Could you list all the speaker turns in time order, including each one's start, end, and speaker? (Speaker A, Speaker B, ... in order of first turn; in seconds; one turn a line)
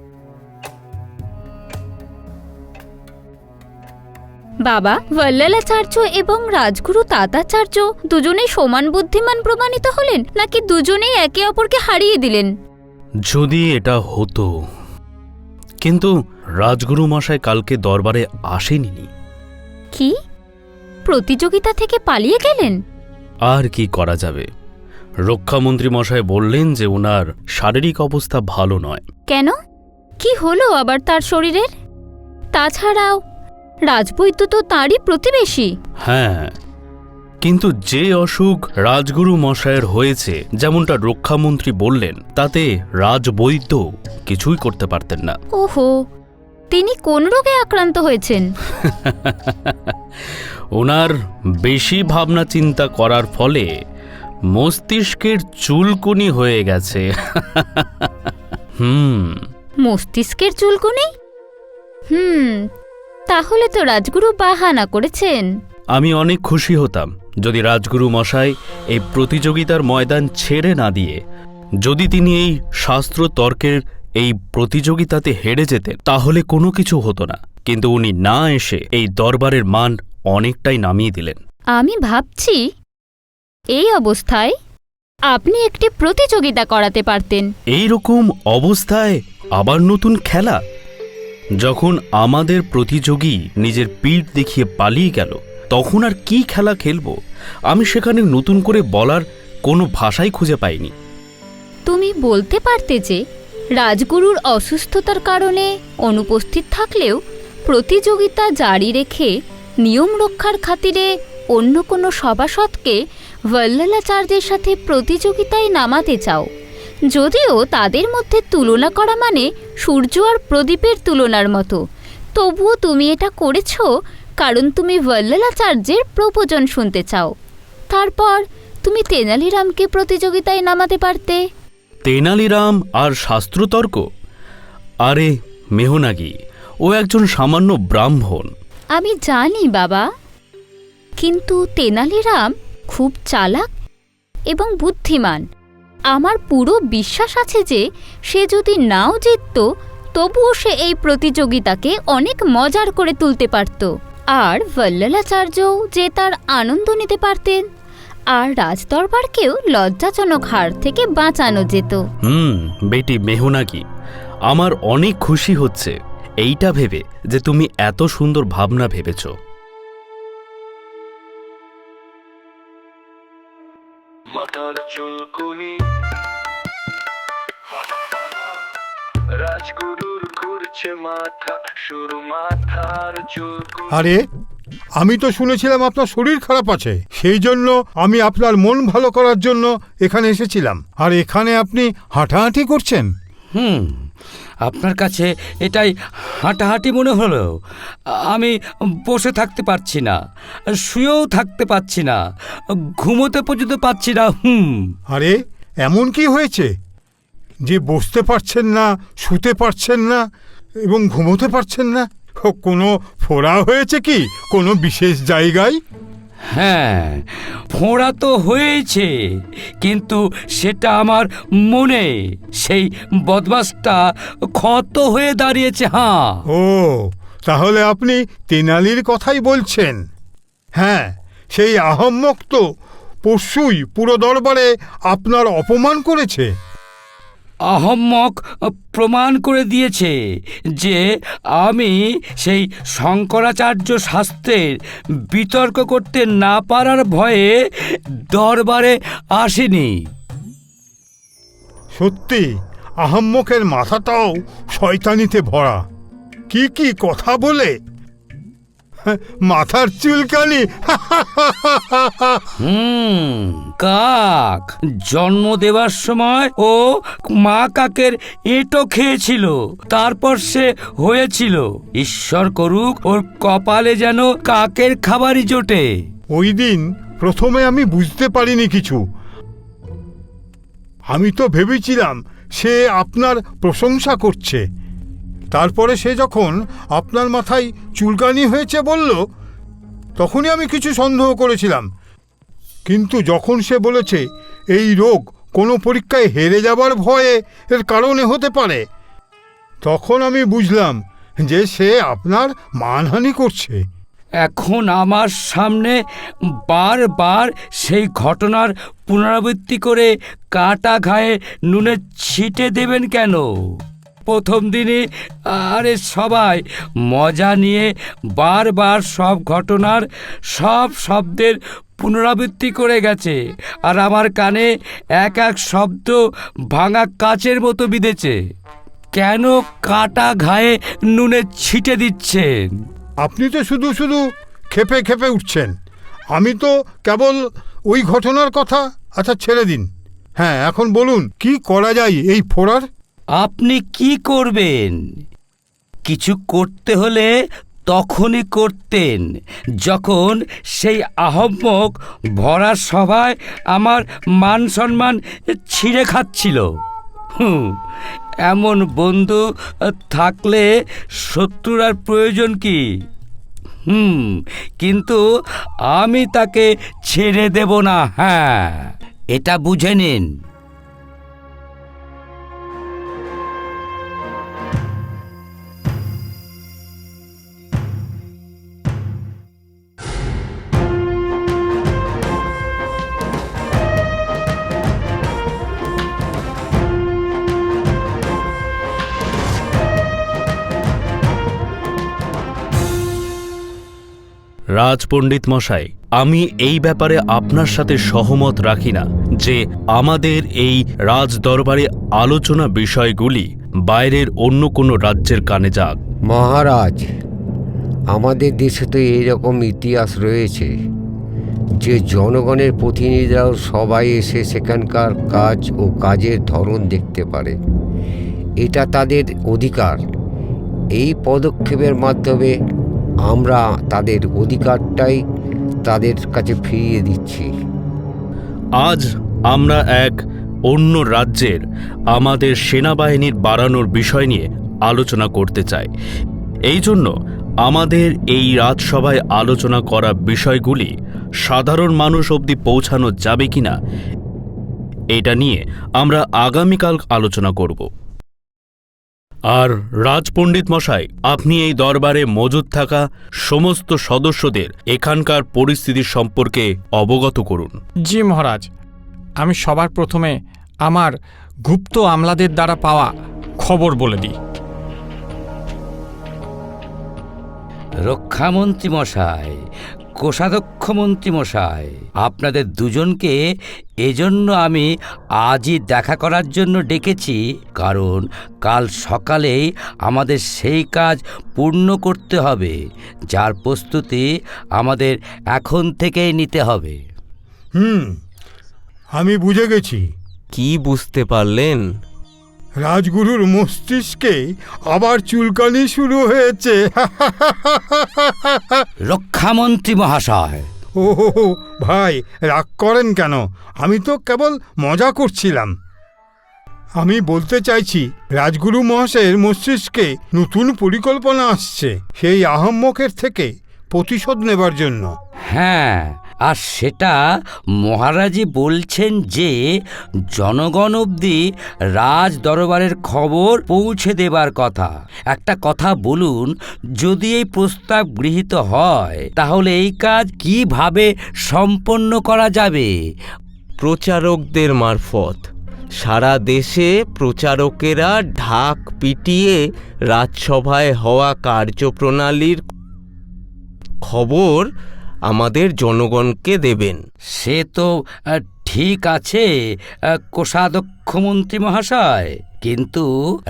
Speaker A: 4.7-12.5
Speaker B: 13.3-14.5
Speaker B: 15.8-19.1
Speaker A: 21.1-22.8
Speaker B: 23.5-24.5
Speaker B: 25.3-29.0
Speaker A: 30.2-31.7
Speaker A: 32.5-33.2
Speaker A: 33.9-35.7
Speaker B: 36.0-36.5
Speaker B: 37.4-45.4
Speaker A: 45.5-46.0
Speaker A: 46.7-48.5
Speaker B: 48.8-53.7
Speaker B: 54.5-58.1
Speaker B: 58.8-59.4
Speaker A: 59.8-61.1
Speaker A: 62.1-62.7
Speaker A: 63.3-65.5
Speaker B: 65.9-71.2
Speaker B: 71.8-81.4
Speaker A: 81.8-82.6
Speaker A: 83.8-84.5
Speaker A: 85.3-87.5
Speaker B: 87.7-90.6
Speaker B: 91.6-97.2
Speaker B: 97.7-100.9
Speaker A: 101.9-103.2
Speaker A: 103.8-113.0
Speaker A: 113.5-116.5
Speaker A: 117.1-121.8
Speaker A: 122.4-123.9
Speaker A: 124.4-127.3
Speaker A: 127.9-131.4
Speaker B: 132.1-134.1
Speaker B: 135.1-138.5
Speaker A: 139.0-140.1
Speaker A: 141.2-143.7
Speaker A: 144.5-145.4
Speaker A: 146.1-149.7
Speaker A: 150.2-157.7
Speaker A: 158.3-162.0
Speaker B: 162.2-163.8
Speaker B: 164.5-169.3
Speaker C: 174.3-175.8
Speaker C: 179.4-183.9
Speaker D: 183.9-184.2
Speaker D: 185.0-193.1
Speaker E: 193.5-194.1
Speaker E: 194.6-197.6
Speaker E: 198.1-200.2
Speaker E: 200.8-202.2
Speaker E: 202.8-204.9
Speaker D: 205.1-206.7
Speaker D: 207.7-210.2
Speaker D: 210.9-215.8
Speaker E: 216.5-226.4
Speaker D: 226.5-230.0
Speaker D: 230.8-232.6
Speaker D: 233.2-236.5
Speaker E: 237.7-240.2
Speaker E: 241.6-244.7
Speaker E: 245.3-250.0
Speaker D: 251.9-252.5
Speaker D: 253.0-255.8
Speaker D: 256.5-257.7
Speaker D: 259.1-262.5
Speaker E: 262.6-275.9
Speaker D: 276.3-279.0
Speaker D: 281.1-284.6
Speaker D: 285.5-289.2
Speaker D: 290.2-291.9
Speaker D: 292.9-298.8
Speaker D: 299.9-303.8
Speaker E: 304.4-306.0
Speaker E: 306.7-324.7
Speaker E: 325.2-326.2
Speaker E: 326.7-328.4
Speaker E: 329.1-332.8
Speaker D: 333.2-335.7
Speaker D: 336.3-342.9
Speaker E: 343.4-345.0
Speaker E: 346.1-347.3
Speaker E: 347.9-349.3
Speaker E: 349.8-356.7
Speaker E: 357.4-357.8
Speaker E: 358.5-360.7
Speaker E: 361.2-362.8
Speaker E: 363.9-365.2
Speaker E: 365.9-370.3
Speaker B: 394.8-406.0
Speaker F: 406.3-407.1
Speaker F: 408.1-410.7
Speaker F: 411.8-417.6
Speaker F: 418.6-420.0
Speaker F: 420.9-422.5
Speaker F: 423.3-425.2
Speaker F: 425.9-427.5
Speaker B: 428.8-431.6
Speaker B: 432.1-435.9
Speaker B: 436.7-437.1
Speaker B: 437.6-440.9
Speaker B: 441.4-443.8
Speaker B: 445.1-447.9
Speaker B: 449.5-457.8
Speaker G: 458.0-458.7
Speaker G: 459.4-464.4
Speaker E: 468.0-469.6
Speaker E: 470.2-473.4
Speaker E: 474.0-474.9
Speaker E: 475.4-482.8
Speaker E: 483.3-487.0
Speaker D: 487.8-488.2
Speaker D: 489.2-490.0
Speaker H: 490.5-491.9
Speaker D: 492.8-494.4
Speaker D: 494.9-498.9
Speaker E: 499.1-500.7
Speaker D: 501.0-505.7
Speaker D: 507.0-515.1
Speaker E: 515.5-517.2
Speaker E: 517.8-519.6
Speaker E: 520.3-532.9
Speaker H: 533.8-535.5
Speaker H: 536.0-542.6
Speaker H: 544.1-544.7
Speaker H: 545.3-547.0
Speaker E: 547.4-549.5
Speaker E: 550.1-553.1